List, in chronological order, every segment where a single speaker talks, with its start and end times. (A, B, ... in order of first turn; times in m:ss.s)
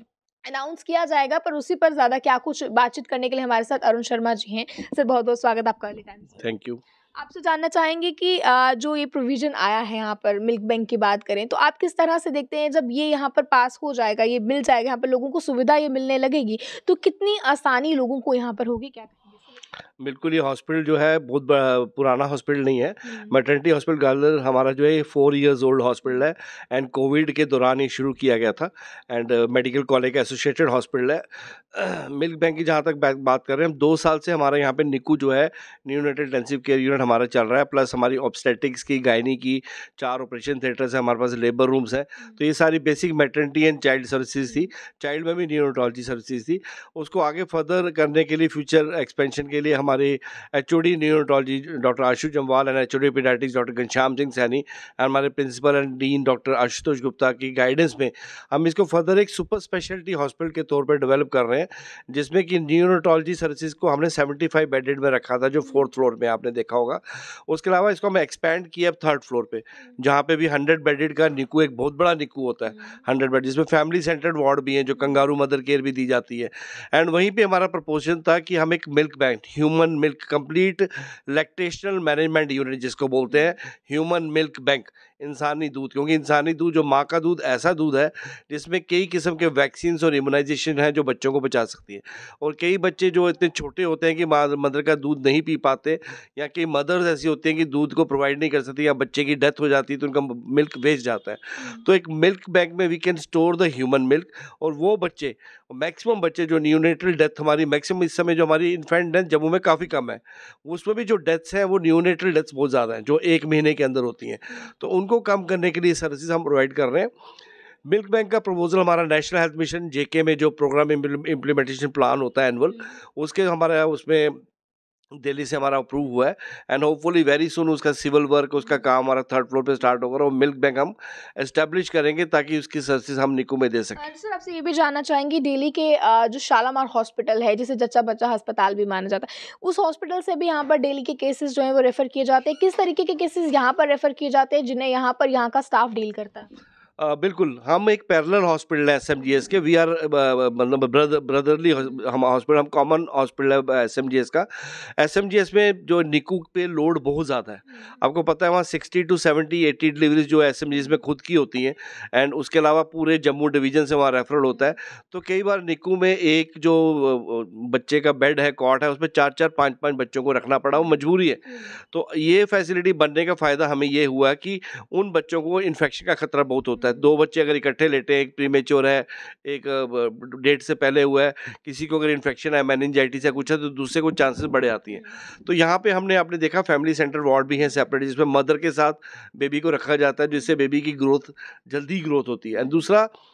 0:00.4-0:06.4 A
0:06.4-0:06.8 B
0:07.2-0:19.5 A
0:20.0-1:57.1 B
0:23.0-0:23.4 A
1:23.3-1:23.5 A
1:41.6-1:41.8 A
1:57.9-2:04.4 B
2:05.2-2:14.0 B
2:14.0-2:26.5 A
2:27.0-3:13.1 B
2:37.7-2:38.0 A
2:40.7-2:41.0 A
2:44.5-2:44.8 A
2:51.5-2:51.8 A
2:56.8-2:57.0 A
3:12.6-3:12.8 A